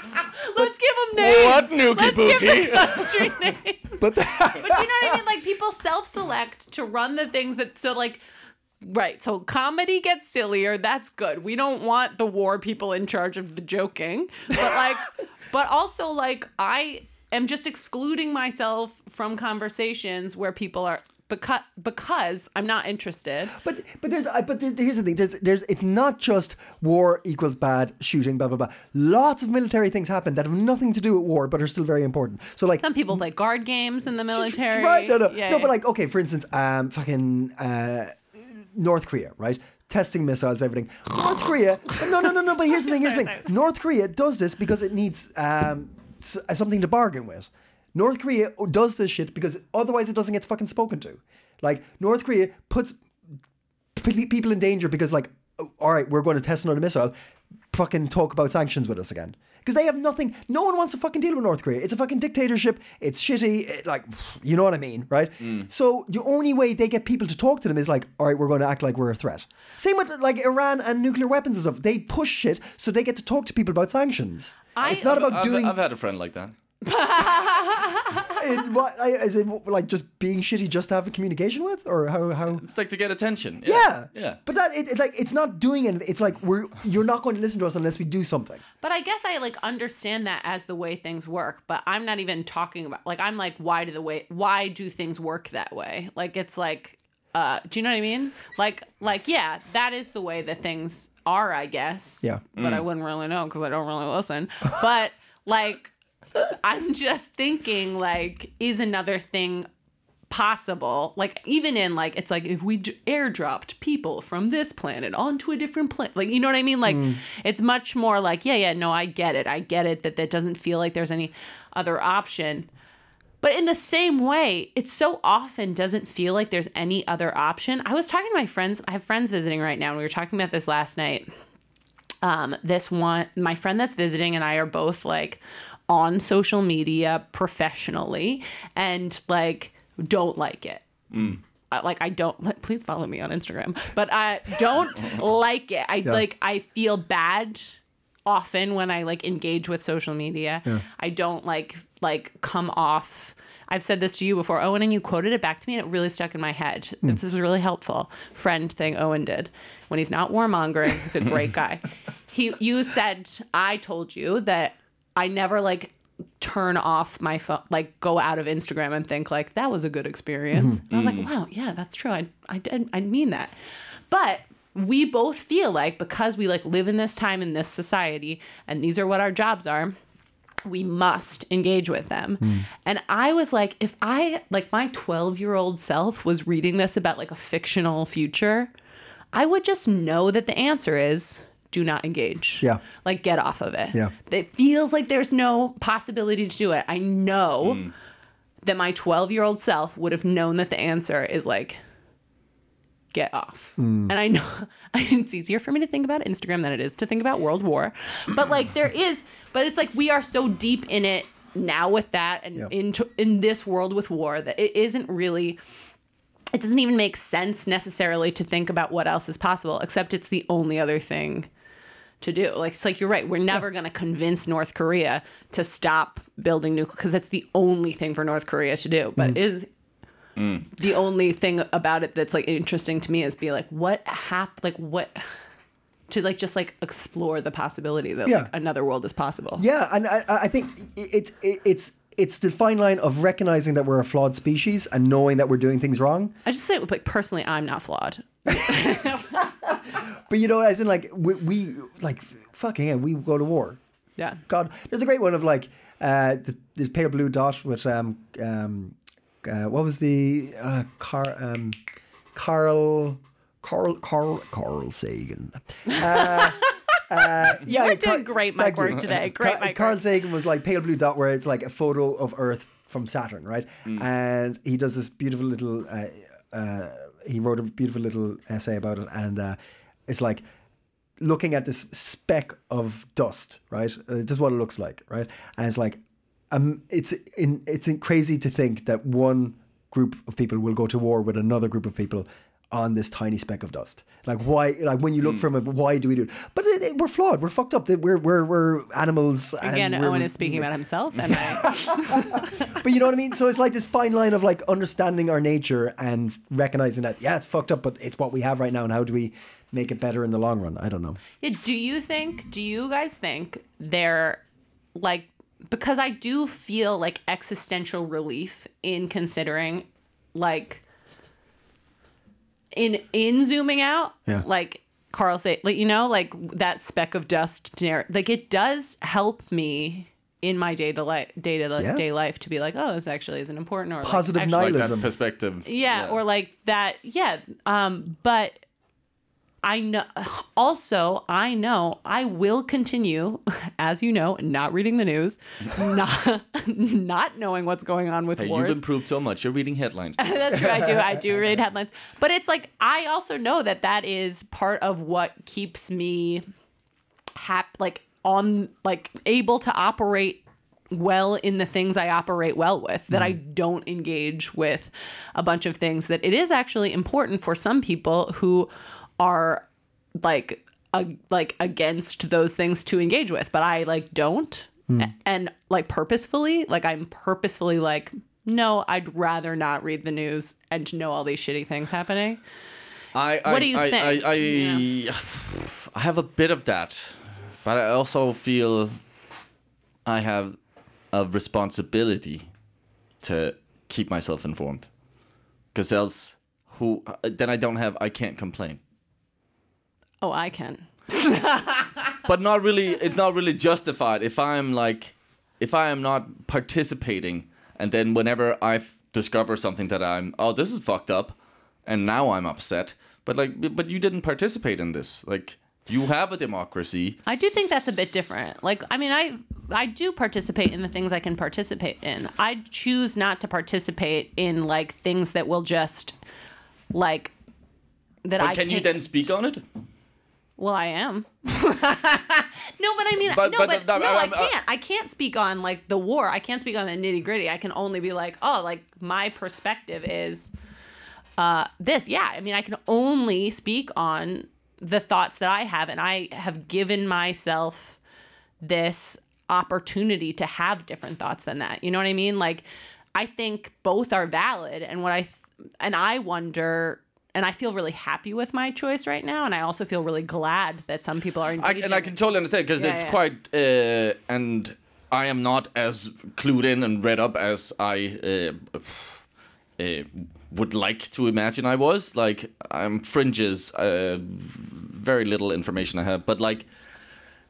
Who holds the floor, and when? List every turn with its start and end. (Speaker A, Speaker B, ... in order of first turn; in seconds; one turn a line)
Speaker A: 0.3-8.2
Speaker B: 1.2-3.4
Speaker C: 4.0-5.2
Speaker A: 8.8-23.6
Speaker C: 23.5-33.2
Speaker A: 32.8-35.7
Speaker C: 34.3-53.0
Speaker A: 42.8-43.5
Speaker C: 54.0-57.1
Speaker C: 57.7-75.8
Speaker B: 65.4-65.7
Speaker A: 74.8-75.3
Speaker B: 74.9-76.5
Speaker A: 76.8-78.4
Speaker C: 78.3-82.6
Speaker B: 82.5-84.4
Speaker C: 83.6-88.6
Speaker A: 88.8-109.7
Speaker B: 102.6-102.9
Speaker A: 110.3-122.7
Speaker C: 116.9-117.2
Speaker A: 123.4-131.3
Speaker A: 132.2-140.8
Speaker B: 141.1-141.4
Speaker A: 141.7-173.5
Speaker C: 170.5-170.8
Speaker B: 170.9-171.3
Speaker A: 174.1-180.0
Speaker A: 180.7-188.7
Speaker A: 189.3-197.9
Speaker B: 197.6-197.9
Speaker A: 198.6-201.8
Speaker A: 203.1-215.6
Speaker C: 203.8-204.1
Speaker A: 216.5-221.5
Speaker A: 222.2-229.7
Speaker B: 230.4-230.7
Speaker A: 230.7-235.2
Speaker A: 236.1-239.7
Speaker C: 238.2-238.5
Speaker C: 239.6-246.3
Speaker A: 246.4-249.5
Speaker C: 248.5-253.8
Speaker A: 254.2-254.4
Speaker C: 254.5-261.8
Speaker C: 262.4-280.4
Speaker A: 265.9-270.0
Speaker C: 281.2-300.7
Speaker A: 299.6-302.8
Speaker C: 301.2-311.2
Speaker A: 311.4-314.4
Speaker A: 315.0-320.8
Speaker A: 322.7-334.9
Speaker C: 331.8-332.0
Speaker C: 334.0-335.1
Speaker B: 334.5-336.2
Speaker A: 335.6-338.6
Speaker A: 339.6-348.8
Speaker B: 348.4-350.7
Speaker A: 350.2-356.4
Speaker A: 357.4-369.7
Speaker A: 370.2-382.4
Speaker B: 383.1-389.0
Speaker A: 383.4-384.9
Speaker B: 390.1-390.6
Speaker B: 391.1-392.5
Speaker B: 393.2-394.9
Speaker B: 395.7-398.8
Speaker A: 400.2-402.2
Speaker B: 402.3-411.4
Speaker B: 411.9-417.2
Speaker A: 417.3-426.2
Speaker A: 426.9-427.3
Speaker A: 428.2-429.0
Speaker B: 428.4-429.6
Speaker A: 430.6-440.5
Speaker B: 433.3-434.5
Speaker A: 441.4-448.0
Speaker A: 448.6-452.6
Speaker A: 453.2-462.2
Speaker B: 461.6-469.2
Speaker A: 462.8-463.2
Speaker B: 469.8-476.7